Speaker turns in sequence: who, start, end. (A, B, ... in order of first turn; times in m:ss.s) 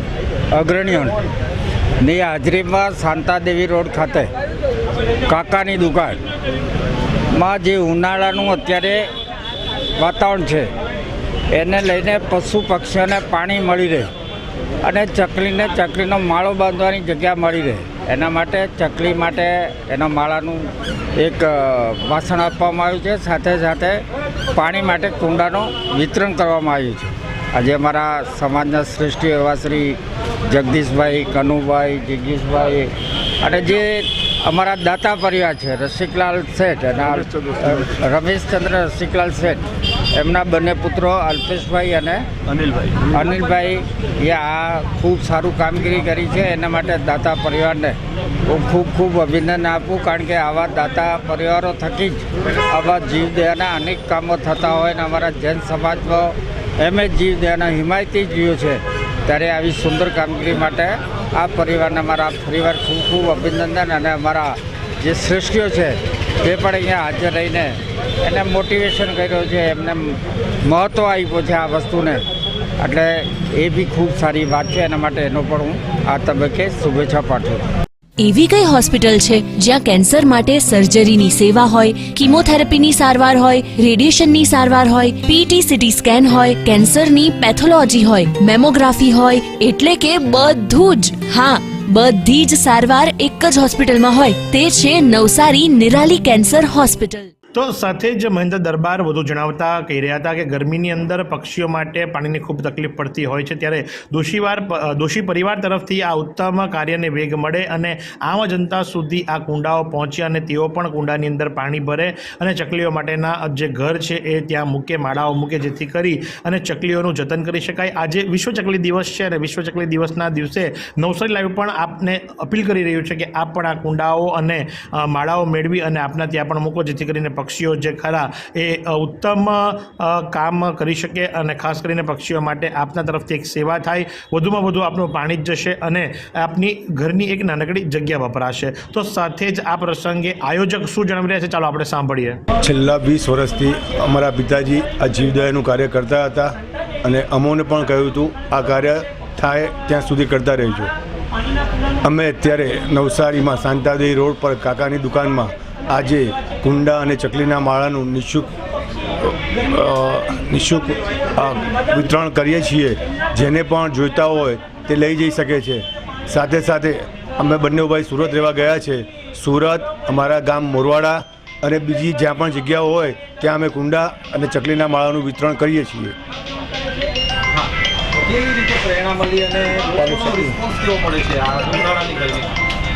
0:00.5-0:01.2 A
0:02.0-0:04.3 A
0:05.2-0:06.2 A
0:07.3-0:09.1 A
0:10.0-0:10.7 A
0:11.5-0:14.1 A
0:14.8-0:42.3 A
0:42.6-0:43.0 B
0:43.0-1:12.2 A
1:12.8-1:17.6 A
1:18.2-1:37.3 C
1:37.5-2:22.4 D
2:22.6-2:30.9 B
2:32.0-2:38.5 B
2:39.2-2:56.1 B
2:58.4-3:02.5 E
3:00.0-3:00.6 B